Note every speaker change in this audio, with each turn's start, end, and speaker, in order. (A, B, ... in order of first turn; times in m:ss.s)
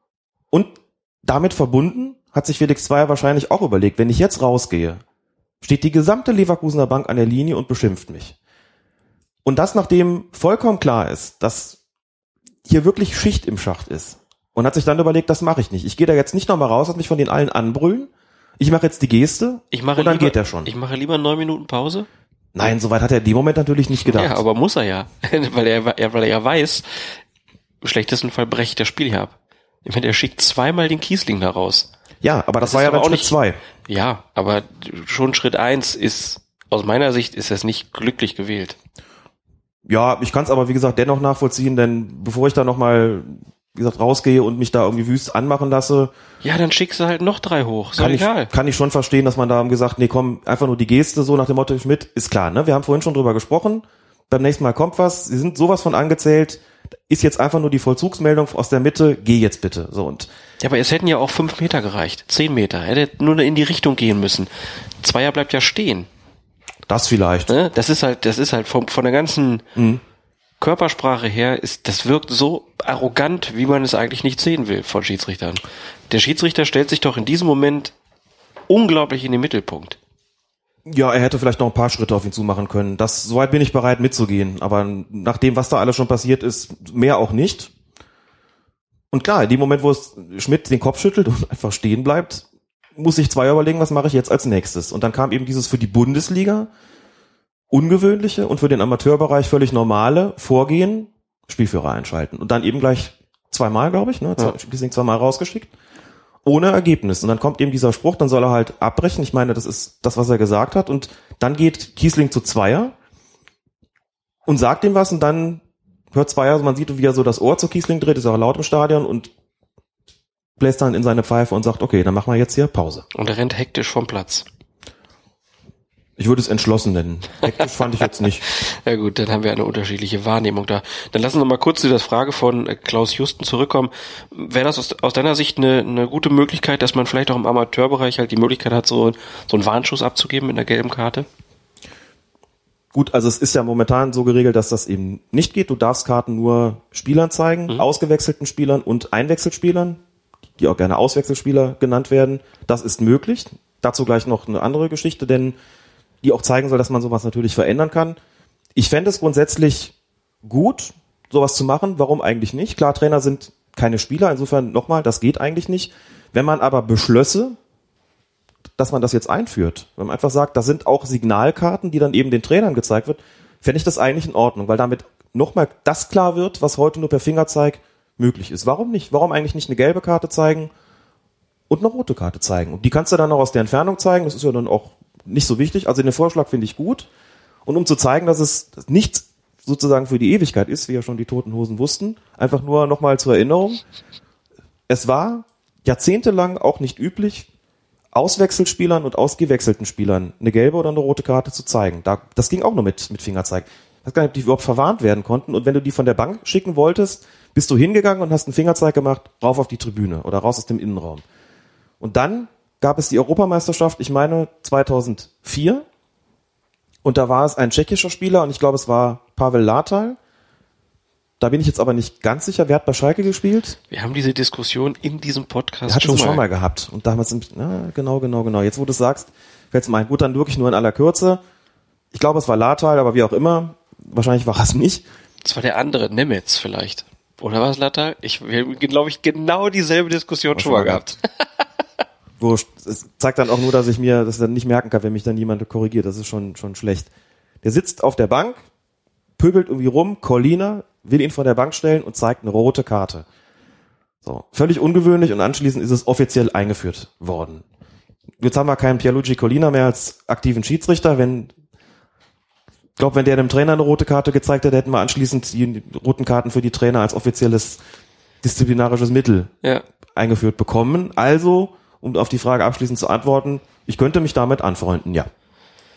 0:00.5-0:05.0 A
0:05.6-0:08.3 A
0:09.4-0:11.8 A
0:12.6-0:20.7 A
0:19.7-0:22.1 B
0:22.5-0:24.4 A
0:24.1-0:27.2 B
0:27.8-0:29.3 B
0:29.8-0:31.9 B
0:32.2-0:33.6 A
0:32.6-0:33.3 B
0:33.9-0:38.8 B
0:39.8-0:46.1 A
0:46.4-0:48.5 B
0:48.0-1:00.3 A
1:00.6-1:04.5 B
1:05.0-1:06.1 B
1:06.9-1:07.5 A
1:07.5-1:09.6 B
1:09.7-1:10.0 A
1:10.6-1:17.9 B
1:18.7-1:20.0 B
1:20.8-1:27.7 A
1:29.1-1:32.4 A
1:33.0-1:36.7 A
1:37.7-1:45.7 A
1:46.4-1:52.9 A
1:54.4-1:59.3 A
2:00.6-2:03.0 A
2:03.1-2:04.4 B
2:06.2-2:08.4 A
2:08.5-2:21.3 B
2:22.9-2:30.0 A
2:30.6-2:35.6 A
2:36.2-2:38.2 A
2:38.7-2:47.6 A
2:48.8-3:00.7 A
3:01.7-3:07.1 A
3:07.6-3:13.8 A
3:14.9-3:17.5 A
3:18.1-3:31.2 A
3:32.0-3:35.8 A
3:37.0-3:40.2 A
3:41.4-3:43.8 A
3:43.9-3:46.4 B
3:45.9-3:51.4 A
3:52.1-3:55.0 A
3:55.4-4:01.2 B
4:00.6-4:01.1 A
4:02.4-4:07.1 A
4:07.6-4:08.6 A
4:09.4-4:13.2 A
4:14.2-4:17.6 A
4:18.4-4:21.5 A
4:23.0-4:27.8 A
4:28.4-4:29.5 A
4:30.1-4:35.3 A